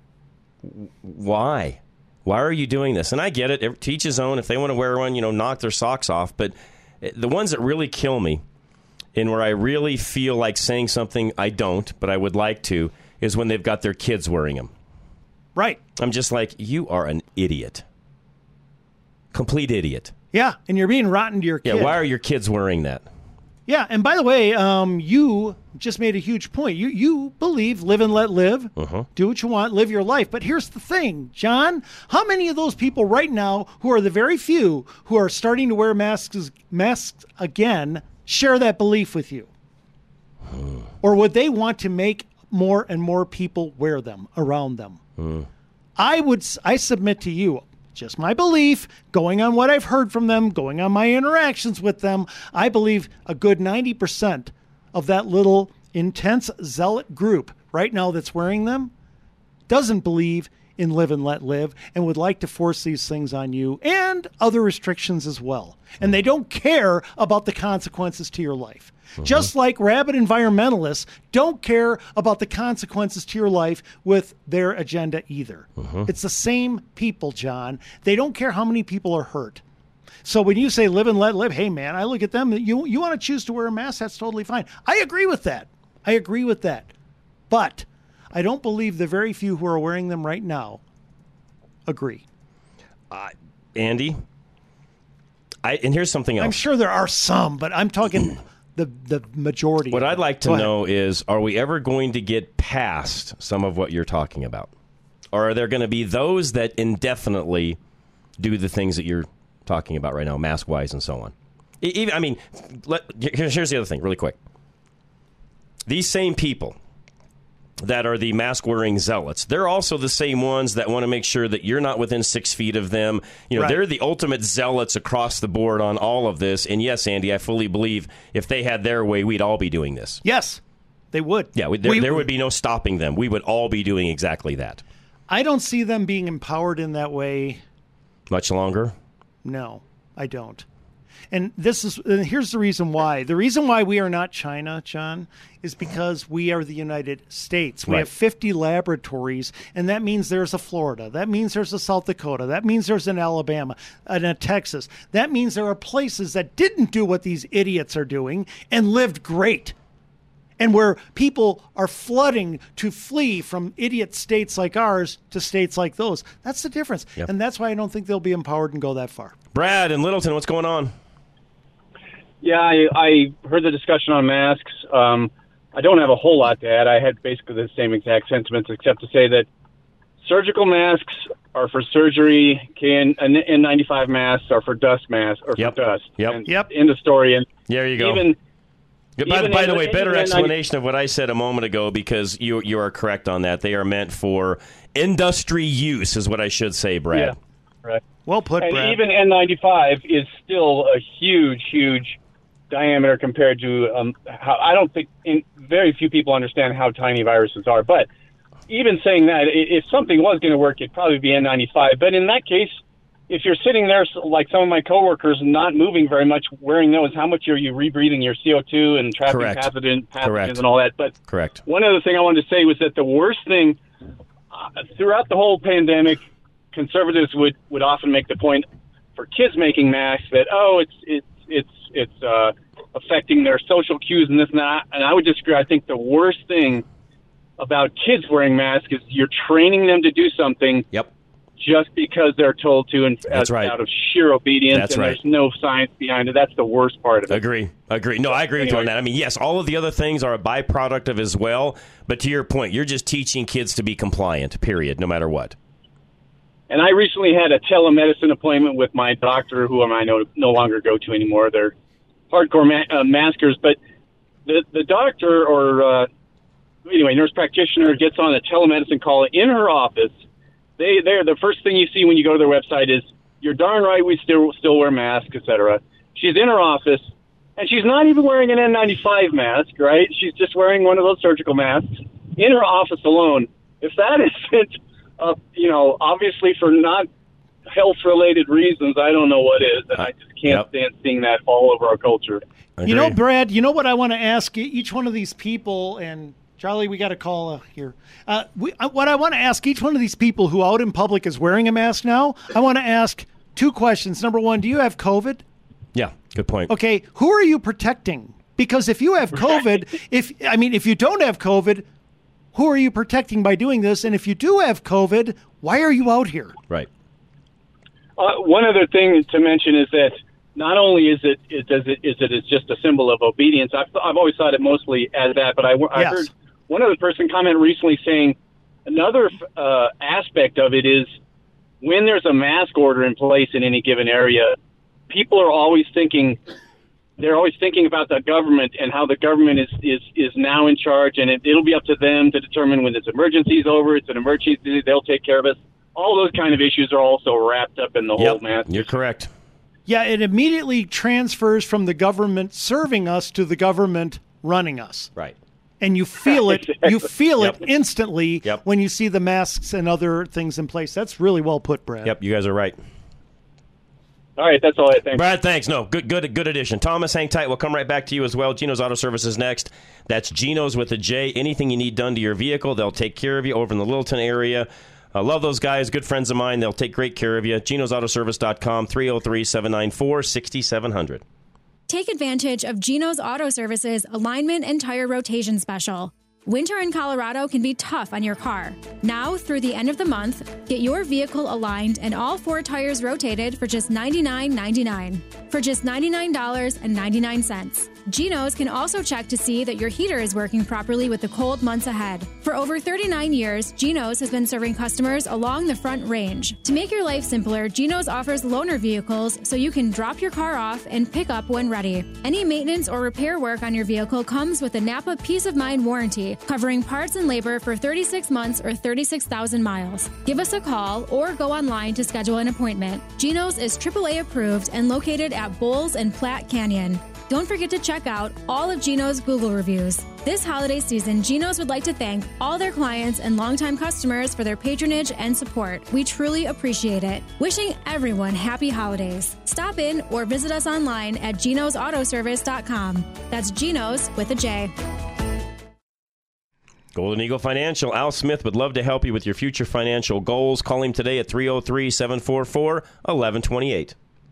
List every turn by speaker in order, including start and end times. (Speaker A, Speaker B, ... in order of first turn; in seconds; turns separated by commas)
Speaker A: 0.6-8.4, Speaker A: 9.2-14.7, Speaker B: 15.6-15.8, Speaker A: 16.0-17.8, Speaker A: 19.3-20.1, Speaker B: 20.3-22.0, Speaker A: 21.6-23.0, Speaker B: 23.7-39.5, Speaker A: 28.8-29.1, Speaker B: 41.0-45.0, Speaker A: 45.2-45.5, Speaker B: 46.0-58.9, Speaker B: 59.7-79.6, Speaker A: 75.8-76.1, Speaker B: 80.2-86.9, Speaker B: 87.5-90.8, Speaker B: 91.9-92.2, Speaker A: 93.1-94.2, Speaker A: 95.6-96.6, Speaker B: 96.4-100.7, Speaker A: 99.9-104.7, Speaker A: 105.3-107.8, Speaker A: 108.4-114.4, Speaker A: 115.9-116.8, Speaker A: 117.8-130.2, Speaker B: 130.2-130.6, Speaker B: 131.1-132.3, Speaker A: 131.6-134.8, Speaker B: 135.3-137.6, Speaker A: 138.3-138.9, Speaker B: 139.4-140.7, Speaker B: 141.3-159.8, Speaker B: 160.6-169.3, Speaker A: 169.5-170.9, Speaker C: 172.4-179.5, Speaker C: 180.2-188.4, Speaker A: 185.6-186.4, Speaker A: 187.7-188.3, Speaker A: 189.2-197.3, Speaker C: 189.2-190.5, Speaker C: 197.1-198.0, Speaker B: 198.3-199.0, Speaker C: 198.6-202.2, Speaker C: 202.7-208.1, Speaker C: 208.7-221.2, Speaker A: 219.3-219.7, Speaker A: 220.2-220.6, Speaker A: 221.3-221.6, Speaker C: 221.7-223.8, Speaker C: 224.5-236.8, Speaker C: 237.6-240.9, Speaker C: 241.6-247.4, Speaker A: 243.3-243.8, Speaker A: 244.7-245.2, Speaker A: 247.3-255.6, Speaker C: 248.6-248.9, Speaker C: 256.7-261.7, Speaker C: 262.3-263.8, Speaker C: 264.5-266.1, Speaker C: 266.9-270.2, Speaker C: 270.8-287.1, Speaker C: 287.7-292.4, Speaker A: 290.0-290.7, Speaker A: 292.8-293.2, Speaker B: 292.9-305.4, Speaker A: 305.9-306.7, Speaker B: 306.7-311.9, Speaker B: 312.5-316.6, Speaker C: 318.2-331.1, Speaker B: 325.9-326.3, Speaker C: 331.8-334.6, Speaker C: 335.1-336.4, Speaker C: 337.2-348.9, Speaker A: 348.2-349.3, Speaker B: 349.9-355.1, Speaker B: 355.8-362.1, Speaker C: 356.5-356.9, Speaker A: 362.0-362.8, Speaker C: 364.4-365.3, Speaker A: 365.1-381.2, Speaker D: 381.9-444.7, Speaker A: 446.9-453.9